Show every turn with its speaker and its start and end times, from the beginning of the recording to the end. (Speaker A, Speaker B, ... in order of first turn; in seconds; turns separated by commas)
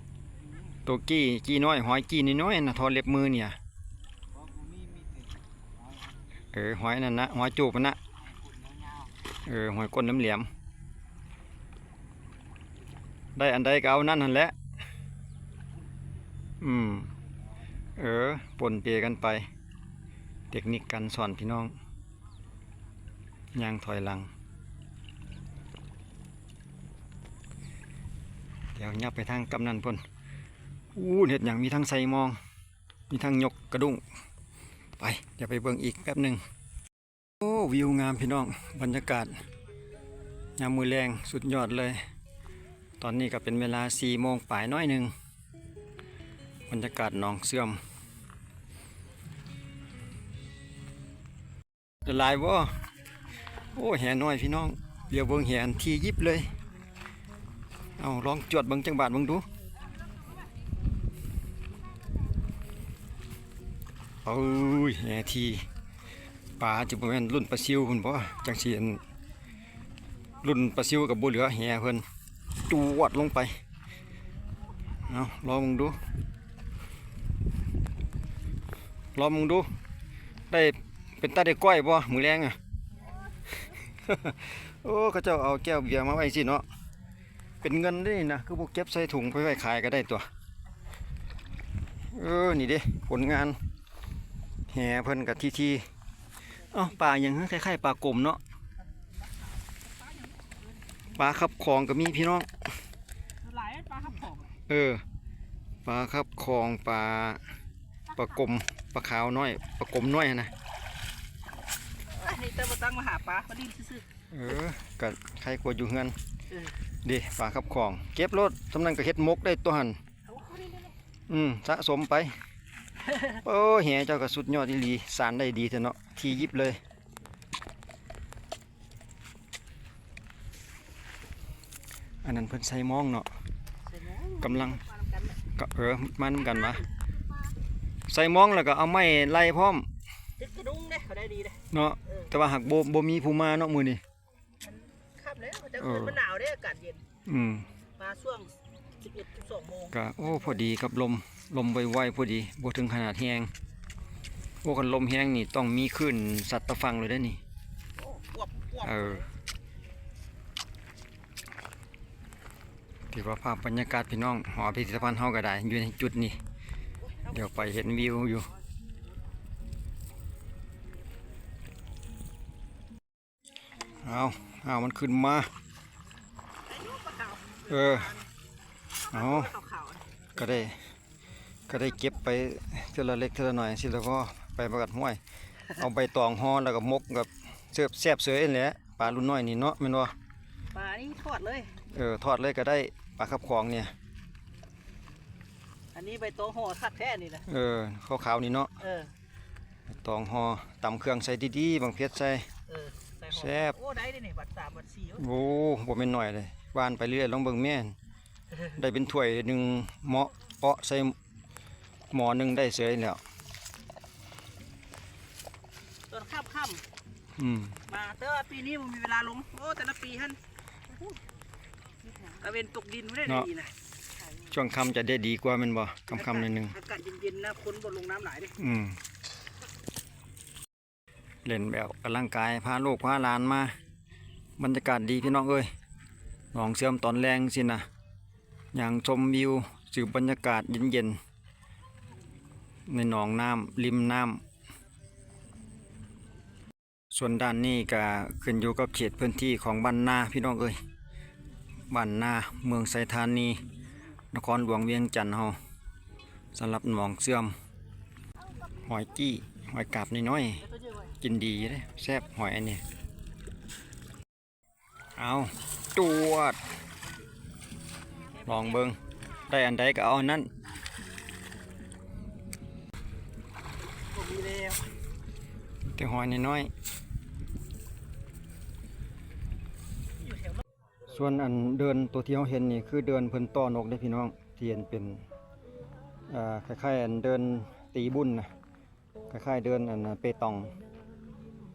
Speaker A: 0.8-3.6, Speaker A: 6.5-8.0, Speaker A: 9.4-10.5, Speaker A: 13.3-14.5, Speaker A: 16.6-17.1, Speaker A: 18.0-19.5, Speaker A: 20.5-21.8, Speaker A: 23.5-24.3, Speaker A: 28.7-30.0, Speaker A: 30.9-32.4, Speaker A: 33.1-34.0, Speaker A: 35.0-36.4, Speaker A: 37.4-39.4, Speaker A: 40.6-42.0, Speaker A: 43.0-45.1, Speaker A: 46.7-47.8, Speaker A: 52.0-52.9, Speaker A: 53.7-56.5, Speaker A: 58.0-59.5, Speaker A: 64.2-65.7, Speaker A: 66.6-69.0, Speaker A: 70.4-72.0, Speaker A: 72.7-73.6, Speaker A: 75.0-76.0, Speaker A: 79.1-79.7, Speaker A: 80.5-82.6, Speaker A: 84.0-86.7, Speaker A: 87.6-90.3, Speaker A: 92.1-93.6, Speaker A: 94.7-95.9, Speaker A: 96.7-98.4, Speaker B: 100.1-100.5, Speaker A: 101.1-102.5, Speaker B: 103.4-104.5, Speaker A: 104.7-105.0, Speaker A: 105.8-107.4, Speaker A: 108.1-110.5, Speaker B: 112.1-114.0, Speaker A: 114.3-116.2, Speaker A: 117.0-120.0, Speaker B: 120.3-120.9, Speaker A: 121.3-122.4, Speaker A: 123.3-126.8, Speaker A: 132.2-133.3, Speaker B: 133.9-135.3, Speaker A: 134.4-134.8, Speaker A: 135.5-136.9, Speaker A: 138.1-139.9, Speaker B: 140.4-141.6, Speaker A: 141.7-144.0, Speaker B: 144.7-147.0, Speaker A: 145.8-146.2, Speaker A: 147.2-147.7, Speaker B: 148.0-149.9, Speaker A: 149.9-153.5, Speaker A: 154.6-157.4, Speaker B: 158.1-158.8, Speaker A: 158.8-159.3, Speaker A: 163.1-166.4, Speaker A: 167.2-168.5, Speaker A: 174.0-175.5, Speaker B: 176.6-178.2, Speaker A: 177.7-178.2, Speaker A: 179.1-179.6, Speaker B: 179.1-180.1, Speaker A: 180.3-180.8, Speaker A: 181.7-190.1, Speaker B: 190.7-191.8, Speaker A: 191.9-193.9, Speaker B: 195.9-197.4, Speaker A: 197.4-198.7, Speaker B: 198.8-199.1, Speaker A: 199.9-202.5, Speaker B: 202.7-205.2, Speaker A: 203.3-203.8, Speaker A: 205.1-207.9, Speaker A: 208.7-211.2, Speaker A: 212.1-213.2, Speaker B: 216.1-216.8, Speaker A: 217.4-217.8, Speaker B: 217.9-220.4, Speaker B: 222.2-223.7, Speaker A: 224.5-226.8, Speaker B: 226.1-228.6, Speaker A: 228.6-229.0, Speaker A: 231.4-233.8, Speaker A: 234.6-235.7, Speaker A: 236.5-237.8, Speaker A: 238.7-241.2, Speaker A: 242.9-244.4, Speaker A: 247.1-250.8, Speaker A: 251.9-253.6, Speaker A: 254.3-255.6, Speaker A: 256.5-257.5, Speaker A: 258.8-260.7, Speaker A: 261.2-262.8, Speaker A: 265.1-266.6, Speaker A: 268.3-270.5, Speaker B: 274.1-274.8, Speaker A: 275.9-276.7, Speaker A: 281.1-285.2, Speaker A: 286.3-288.5, Speaker A: 289.3-290.8